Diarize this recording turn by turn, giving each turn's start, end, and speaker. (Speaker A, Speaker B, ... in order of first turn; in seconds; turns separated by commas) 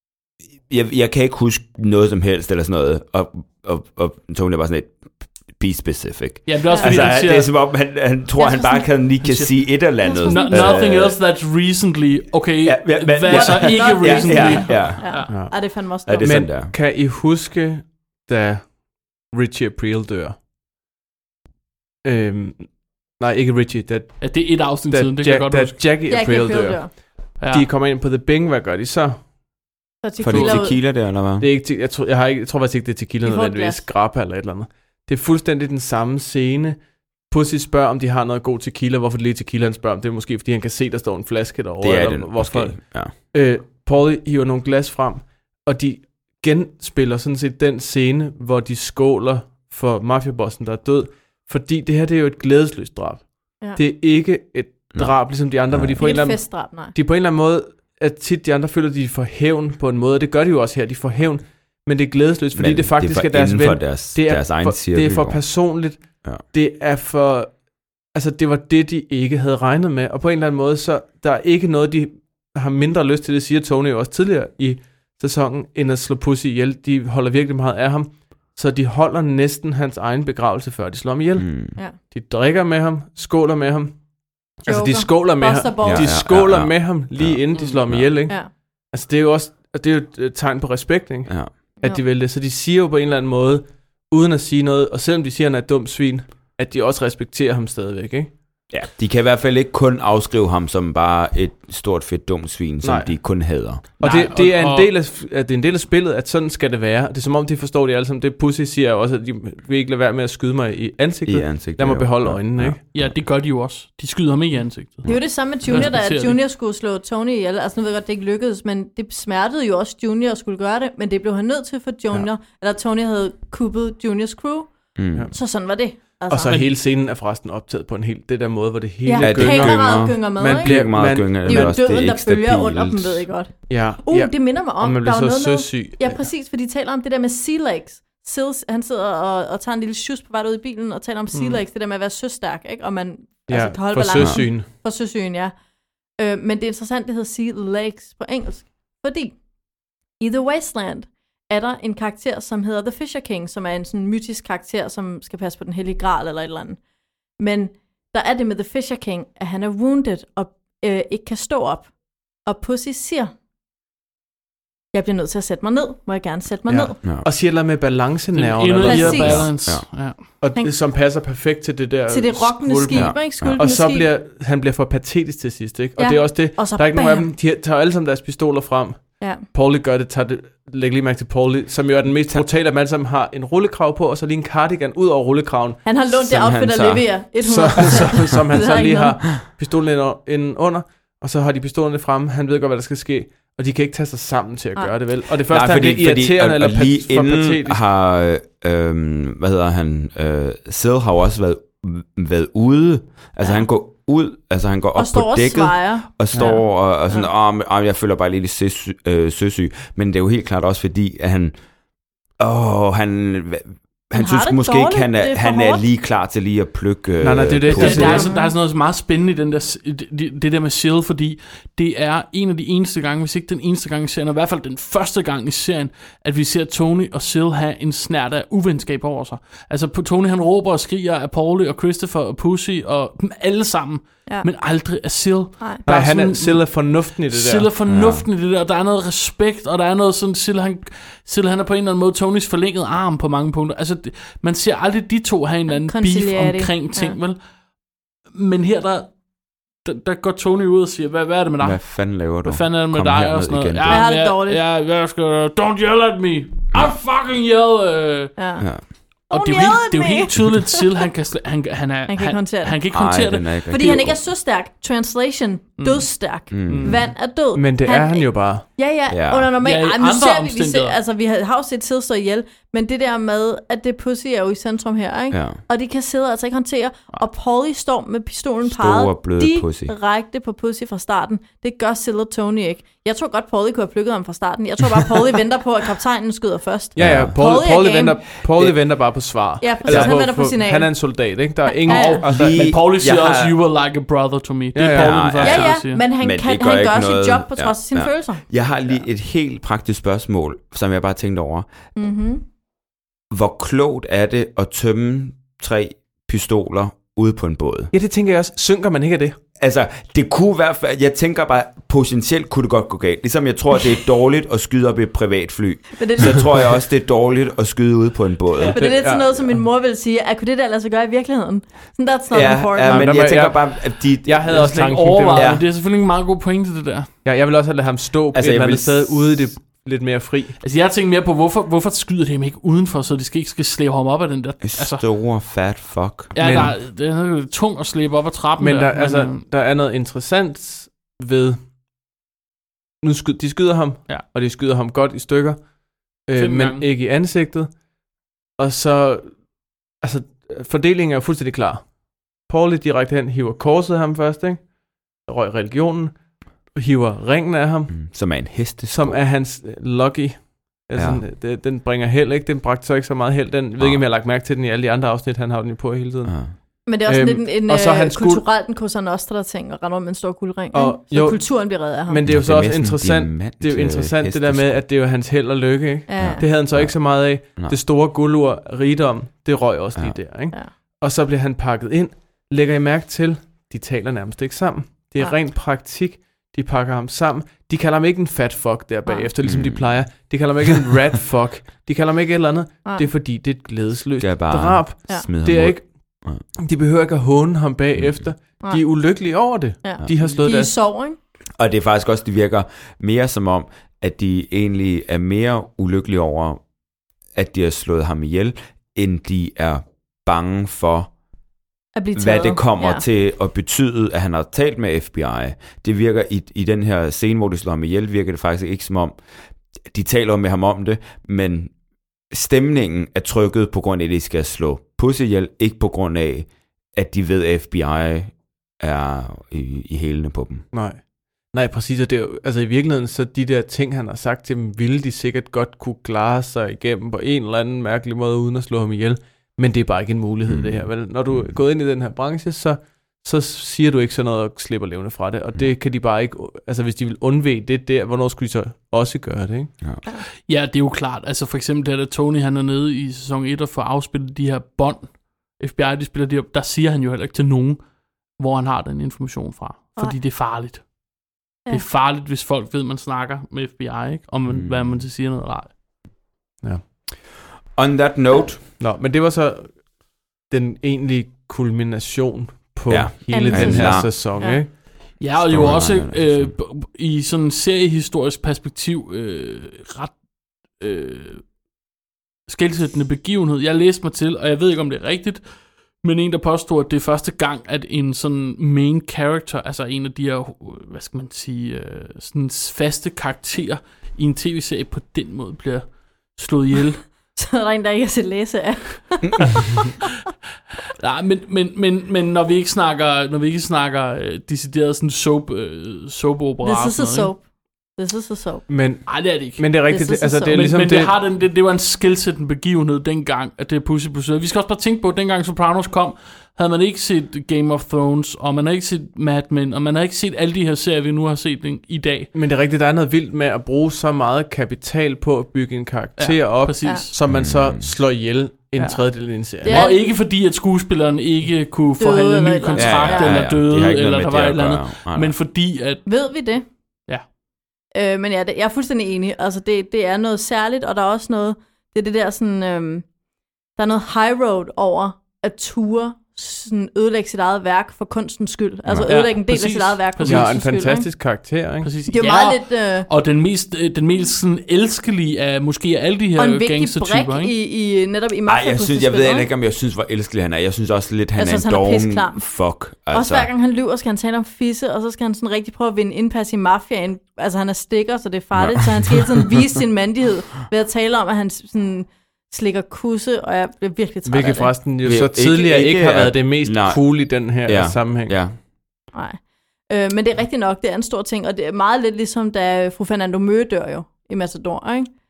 Speaker A: 0.7-5.0, Speaker A: 5.5-11.2, Speaker B: 6.5-7.5, Speaker C: 6.7-7.1, Speaker C: 8.4-8.9, Speaker B: 9.2-15.3, Speaker C: 10.0-10.9, Speaker A: 12.6-16.7, Speaker C: 13.2-16.4, Speaker D: 15.3-15.6, Speaker D: 16.2-20.4, Speaker D: 22.0-29.3, Speaker B: 24.2-25.8, Speaker C: 26.1-26.9, Speaker B: 27.4-27.7, Speaker C: 30.0-30.8, Speaker A: 30.2-31.5, Speaker D: 30.5-36.8, Speaker C: 33.2-33.8, Speaker D: 37.3-67.5, Speaker A: 41.8-43.1, Speaker A: 54.9-56.2, Speaker C: 56.0-56.9, Speaker A: 62.5-65.5, Speaker D: 68.1-84.0, Speaker A: 81.4-81.8, Speaker D: 84.6-98.3, Speaker C: 84.7-86.2, Speaker A: 85.8-88.1, Speaker A: 91.3-91.5, Speaker A: 98.7-103.8, Speaker D: 102.8-112.8, Speaker B: 104.0-104.9, Speaker A: 111.3-113.2, Speaker B: 112.9-116.4, Speaker A: 115.0-115.9, Speaker C: 115.1-124.8, Speaker A: 125.0-125.3, Speaker C: 125.3-126.5, Speaker D: 126.3-131.8, Speaker C: 129.0-145.5, Speaker A: 129.2-133.3, Speaker D: 133.7-136.3, Speaker D: 141.3-141.6, Speaker D: 143.5-144.7, Speaker A: 144.2-144.4, Speaker C: 146.2-149.4, Speaker C: 150.2-156.8, Speaker C: 157.4-161.9, Speaker C: 162.4-163.3, Speaker C: 164.9-167.0, Speaker D: 166.7-169.5, Speaker A: 167.0-167.3, Speaker B: 168.3-170.2, Speaker C: 168.8-169.4, Speaker A: 169.2-169.9, Speaker D: 170.4-185.8, Speaker C: 172.1-174.1, Speaker A: 172.9-173.6, Speaker C: 176.0-177.3, Speaker C: 185.8-189.2, Speaker A: 186.1-187.2, Speaker D: 187.4-197.8, Speaker A: 187.8-188.2, Speaker A: 195.4-211.6, Speaker C: 205.0-207.3, Speaker A: 212.4-218.3, Speaker C: 214.1-215.8, Speaker D: 217.2-218.3, Speaker B: 217.7-247.4, Speaker C: 217.8-218.5, Speaker D: 235.9-237.7, Speaker A: 237.9-238.3, Speaker C: 245.7-247.2, Speaker B: 248.3-249.1, Speaker B: 249.8-258.4, Speaker A: 251.6-254.1, Speaker C: 253.9-254.6, Speaker A: 256.7-257.0, Speaker C: 258.4-258.7, Speaker C: 259.3-260.8, Speaker B: 259.3-264.1, Speaker C: 262.1-262.8, Speaker A: 262.9-264.2, Speaker C: 263.7-288.2, Speaker B: 265.8-266.1, Speaker A: 266.5-267.1, Speaker B: 266.6-267.0, Speaker D: 267.5-268.7, Speaker A: 269.1-269.5, Speaker B: 269.6-271.0, Speaker A: 275.3-275.6, Speaker A: 278.7-279.9, Speaker A: 287.0-287.4, Speaker D: 287.0-292.7, Speaker C: 289.6-292.2, Speaker A: 289.9-290.1, Speaker B: 291.9-296.0, Speaker A: 292.3-293.6, Speaker D: 294.8-295.3, Speaker A: 294.9-301.7, Speaker C: 295.4-298.4, Speaker C: 302.0-302.4, Speaker A: 303.3-307.9, Speaker D: 307.9-309.4, Speaker A: 309.6-319.1, Speaker C: 316.0-316.7, Speaker C: 318.7-323.2, Speaker D: 318.8-319.6, Speaker A: 322.3-325.7, Speaker D: 322.8-325.5, Speaker B: 324.5-327.1, Speaker D: 327.2-330.6, Speaker A: 328.3-329.5, Speaker B: 330.6-335.0, Speaker A: 334.6-336.3, Speaker B: 336.4-339.4, Speaker D: 336.4-336.8, Speaker D: 338.6-341.6, Speaker D: 343.0-345.6, Speaker D: 346.3-347.7, Speaker B: 346.4-346.9, Speaker D: 348.6-349.3, Speaker D: 350.0-351.9, Speaker D: 352.5-354.6, Speaker D: 355.3-356.1, Speaker D: 356.8-358.0, Speaker A: 357.9-359.2, Speaker D: 358.9-366.5, Speaker A: 361.0-361.2, Speaker A: 363.8-364.0, Speaker A: 366.3-366.5, Speaker C: 366.9-372.2, Speaker D: 367.1-368.4, Speaker D: 370.7-371.5, Speaker D: 372.1-395.9, Speaker A: 372.3-374.8, Speaker C: 376.1-376.5, Speaker A: 376.2-377.8, Speaker A: 389.4-389.9, Speaker A: 394.2-396.4, Speaker D: 396.6-400.7, Speaker A: 398.0-398.3, Speaker C: 399.8-401.2, Speaker A: 401.6-406.6, Speaker A: 407.3-411.1, Speaker C: 412.0-413.0, Speaker A: 412.1-419.2, Speaker A: 419.9-421.7, Speaker A: 422.3-430.6, Speaker D: 430.7-449.7, Speaker A: 440.5-441.6, Speaker B: 450.5-457.8, Speaker B: 458.4-460.8, Speaker B: 461.7-465.7, Speaker A: 464.5-465.1, Speaker A: 467.8-468.7, Speaker D: 468.8-469.8, Speaker D: 470.5-474.7, Speaker A: 472.9-474.3, Speaker C: 473.3-474.6, Speaker B: 475.2-480.1, Speaker A: 475.4-476.5, Speaker B: 480.8-481.4, Speaker B: 482.5-485.4, Speaker B: 486.0-497.0, Speaker C: 497.4-499.8, Speaker B: 501.0-507.3, Speaker C: 506.6-507.4, Speaker C: 508.0-508.6, Speaker D: 508.7-511.1, Speaker B: 509.1-509.9, Speaker C: 509.9-510.6, Speaker B: 510.5-522.3, Speaker D: 522.4-529.8, Speaker B: 526.2-527.1, Speaker C: 526.8-527.1, Speaker A: 527.3-527.9, Speaker B: 529.6-536.0, Speaker C: 529.6-530.0, Speaker C: 532.0-533.3, Speaker A: 532.7-535.4, Speaker C: 536.1-536.6, Speaker C: 538.0-543.0, Speaker C: 543.8-551.1, Speaker B: 549.1-550.5, Speaker D: 550.2-551.9, Speaker B: 551.8-557.5, Speaker C: 552.1-553.1, Speaker C: 556.4-559.5, Speaker A: 558.5-563.5, Speaker C: 561.4-562.5, Speaker C: 563.1-574.7, Speaker A: 568.6-569.4, Speaker D: 574.3-578.4, Speaker A: 575.0-578.6, Speaker C: 579.1-585.1